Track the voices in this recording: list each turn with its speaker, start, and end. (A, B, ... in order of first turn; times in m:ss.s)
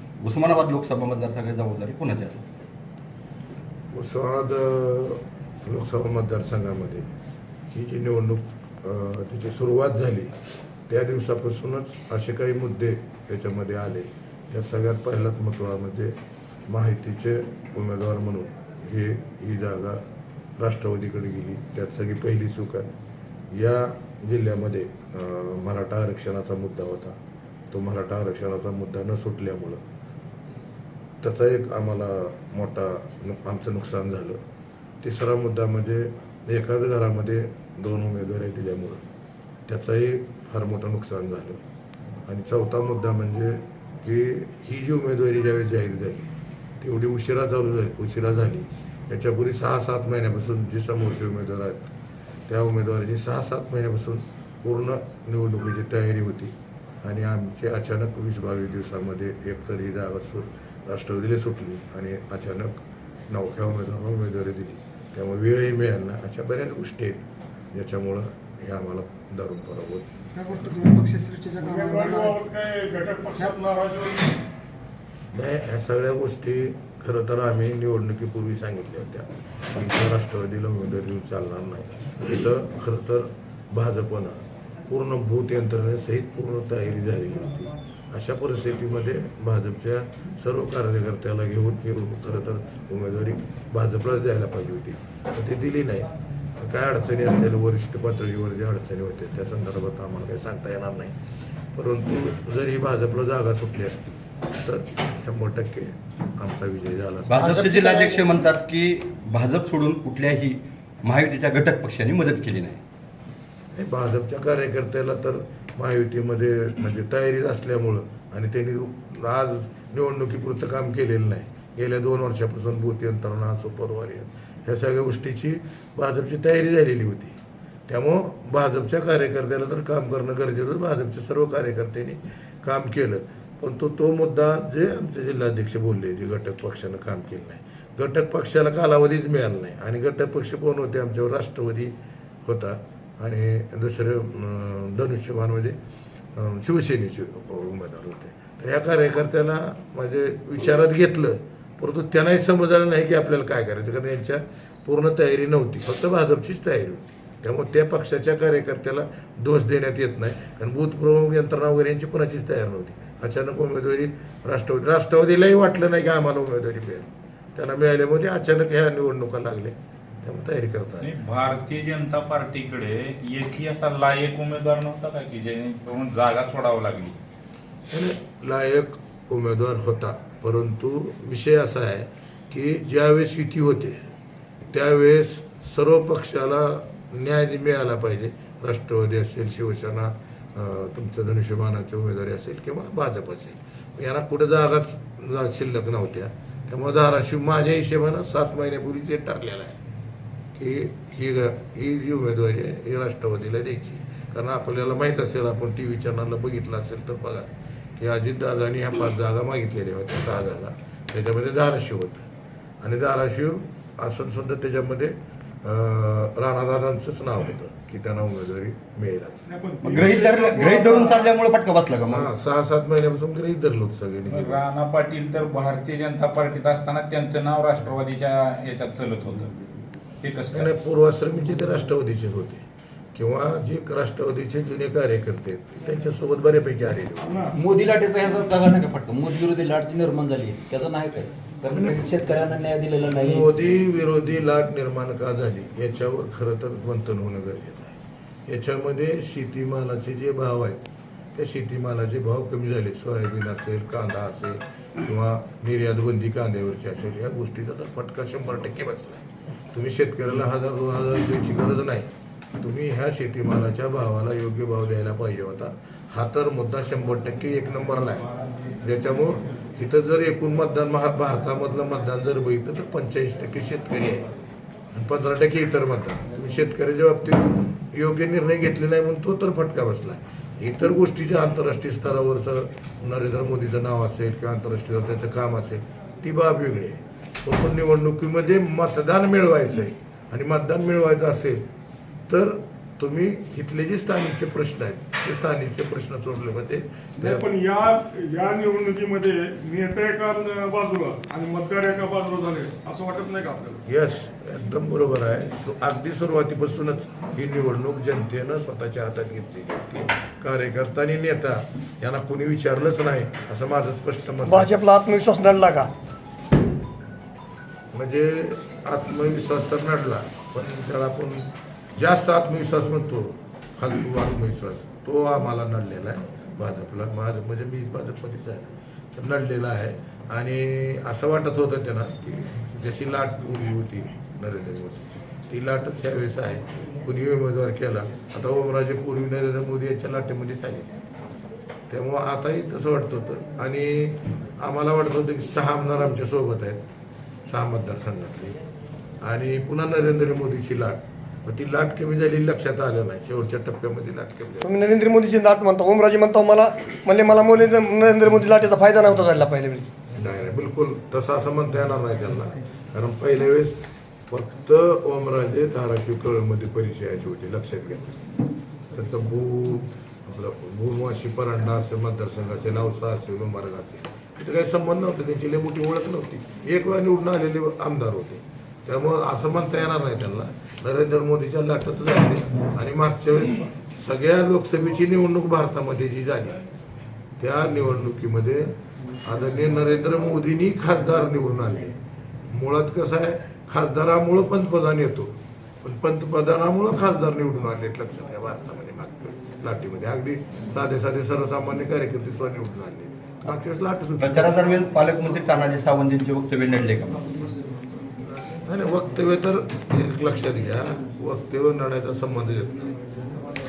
0:00.2-0:02.5 A
0:03.9-0:07.0 B
0:07.7-0:10.3 B
0:10.9-0:16.2 B
0:16.7-0:20.0 B
0:20.6-0:22.9 B
0:23.5-0:27.1 B
0:27.7-0:29.8 B
0:31.2-0:34.4 B
0:35.0-0:39.0 B
0:39.7-0:41.6 B
0:42.3-0:46.3 B
0:46.8-0:51.9 B
0:52.5-1:02.8 B
1:03.3-1:10.7 B
1:10.4-1:12.4 C
1:11.6-1:14.4 D
1:15.3-1:24.4 B
1:24.9-1:36.1 B
1:36.6-1:41.2 B
1:41.7-1:47.4 B
1:47.3-1:52.8 A
1:47.4-1:48.2 C
1:53.8-2:07.4 B
2:07.9-2:21.9 B
2:22.4-2:25.8 B
2:26.4-2:51.1 B
2:51.0-2:57.2 E
2:57.9-3:04.0 B
3:04.7-3:19.8 B
3:20.6-3:32.2 B
3:32.8-3:39.4 B
3:39.5-3:41.3 D
3:39.8-3:42.3 A
3:42.1-3:44.6 B
3:44.3-3:49.5 E
3:50.2-3:50.7 E
3:50.5-3:52.6 B
3:53.2-3:57.5 B
3:57.2-3:57.5 D
3:57.5-4:03.5 F
4:03.1-4:10.8 B
4:11.4-4:22.1 B
4:22.6-4:28.3 B
4:28.8-4:34.3 B
4:34.9-4:51.6 B
4:52.3-4:57.4 B
4:57.2-5:03.8 D
5:03.9-5:14.7 B
5:14.5-5:15.9 C
5:17.9-5:41.0 B
5:41.9-5:46.8 B
5:47.5-5:48.6 B
5:49.2-5:54.7 B
5:54.6-5:59.9 C
6:00.2-6:08.2 B
6:08.9-6:26.6 B
6:27.4-6:28.7 B
6:29.2-6:32.0 B
6:32.5-6:35.3 B
6:35.8-6:44.7 B
6:44.2-6:47.2 A
6:48.7-6:53.0 B